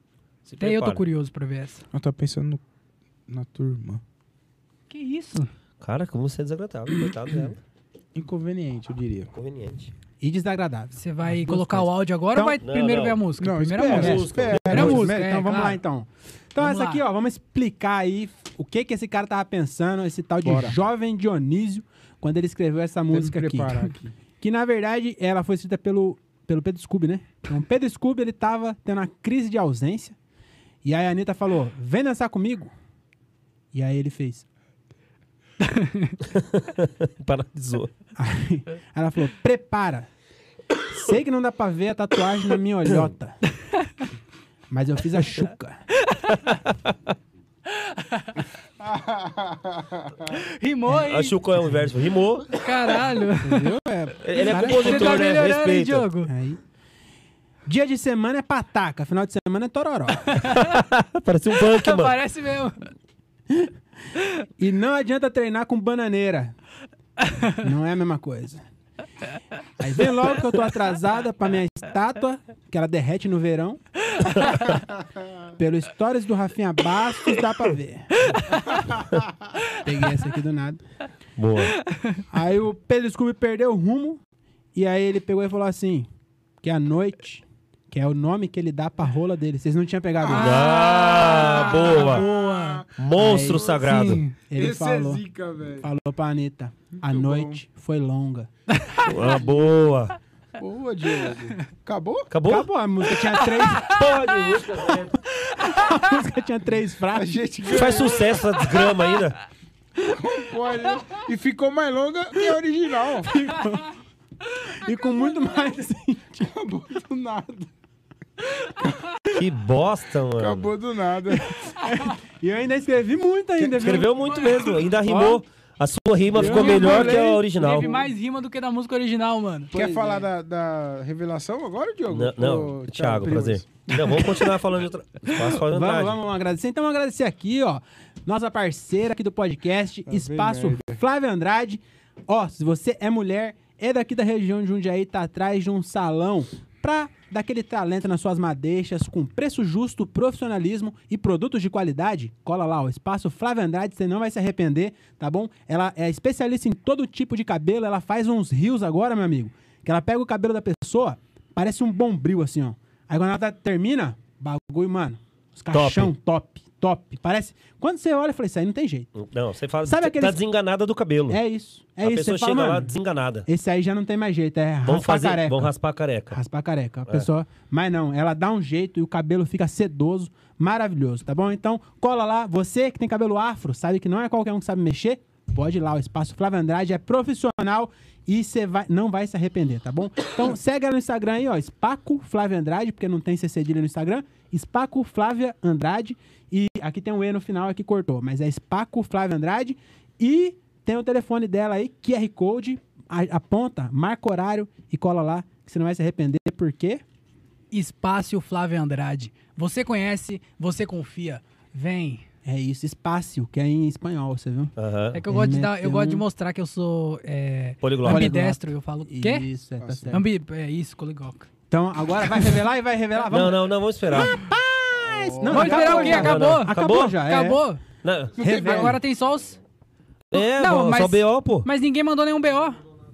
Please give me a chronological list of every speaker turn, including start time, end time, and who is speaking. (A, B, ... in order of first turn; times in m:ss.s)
0:00.4-0:01.0 A
0:00.6-0:01.8 B
0:01.9-0:02.6 C
0:03.3-0:04.0 C
0:04.9-0:05.5 B
0:05.8-0:07.6 A
0:08.2-0:09.3 C
0:09.3-0:09.9 A
0:10.2-0:12.6 D
0:11.0-0:15.8 B
0:12.6-0:13.2 A
0:13.4-0:14.9 C
0:13.8-0:15.1 A
0:13.8-0:30.2 D
0:16.6-0:17.0 B
0:20.4-0:20.7 C
0:23.1-0:24.1 C
0:30.8-0:32.7 D
0:33.7-0:34.4 D
0:35.6-0:36.2 B
0:36.3-0:37.9 A
0:38.2-0:40.1 D
0:40.9-0:43.4 D
0:44.7-0:45.8 D
0:46.0-0:46.4 B
0:46.3-0:47.1 A
0:47.7-0:48.4 B
0:48.8-0:50.4 C
0:50.3-0:51.4 B
0:51.0-0:52.6 A
0:52.5-0:56.3 B
0:53.4-0:55.4 D
0:54.2-0:56.1 A
0:56.2-0:56.6 D
0:57.6-1:00.4 D
1:00.3-1:00.8 B
1:00.4-1:02.1 A
1:01.6-1:02.9 B
1:04.6-1:06.5 D
1:07.2-1:07.6 B
1:07.6-1:08.6 D
1:09.8-1:13.8 D
1:15.6-1:18.1 D
1:18.2-1:18.8 B
1:19.8-1:20.8 D
1:21.4-1:21.8 A
1:21.9-1:22.2 B
1:22.3-1:24.2 D
1:24.7-1:26.1 D
1:26.6-1:30.7 D
1:30.2-1:35.9 C
1:30.3-1:32.8 B
1:30.3-1:32.2 A
1:33.0-1:34.2 A
1:33.1-1:35.2 D
1:33.8-1:34.3 B
1:35.8-1:38.5 D
1:37.0-1:37.6 C
1:38.7-1:39.4 B
1:39.0-1:40.2 A
1:40.6-1:42.3 C
1:42.3-1:42.7 A
1:42.4-1:44.0 D
1:43.3-1:44.4 B
1:43.8-1:45.2 A
1:45.4-1:46.0 B
1:45.6-1:47.4 D
1:47.1-1:48.5 C
1:47.7-1:49.4 A
1:48.6-1:49.2 B
1:50.0-1:53.3 C
1:53.2-1:53.9 D
1:54.6-1:56.5 D
1:56.4-1:57.7 C
1:59.3-2:00.7 A
2:00.4-2:01.6 C
2:01.8-2:04.2 D
2:03.6-2:07.9 A
2:05.0-2:05.4 D
2:06.3-2:07.2 D
2:06.3-2:08.1 C
2:06.4-2:09.7 B
2:09.7-2:10.3 D
2:09.7-2:14.4 C
2:12.1-2:16.2 A
2:15.6-2:49.1 D
2:20.1-2:21.0 C
2:45.7-2:46.1 A
2:49.1-2:51.4 A
2:49.8-2:50.4 D
2:51.3-2:55.7 D
2:52.0-2:53.5 A
2:54.8-2:56.4 A
2:56.3-3:27.0 D
3:27.7-3:32.2 B
3:32.4-3:34.7 D
3:34.8-3:35.2 A
3:35.1-3:39.5 B
3:35.3-3:36.2 D
3:37.8-3:38.3 A
3:38.0-3:40.3 D
3:39.8-3:40.1 C
3:40.1-3:41.5 B
3:41.7-3:47.6 D
3:43.3-3:44.4 A
3:44.9-3:46.4 C
3:45.4-3:47.8 B
3:45.8-3:47.2 A
3:48.0-3:48.4 A
3:48.4-3:49.0 C
3:48.4-3:49.0 D
3:48.4-3:49.6 B
3:50.3-3:51.7 A
3:50.3-3:52.8 B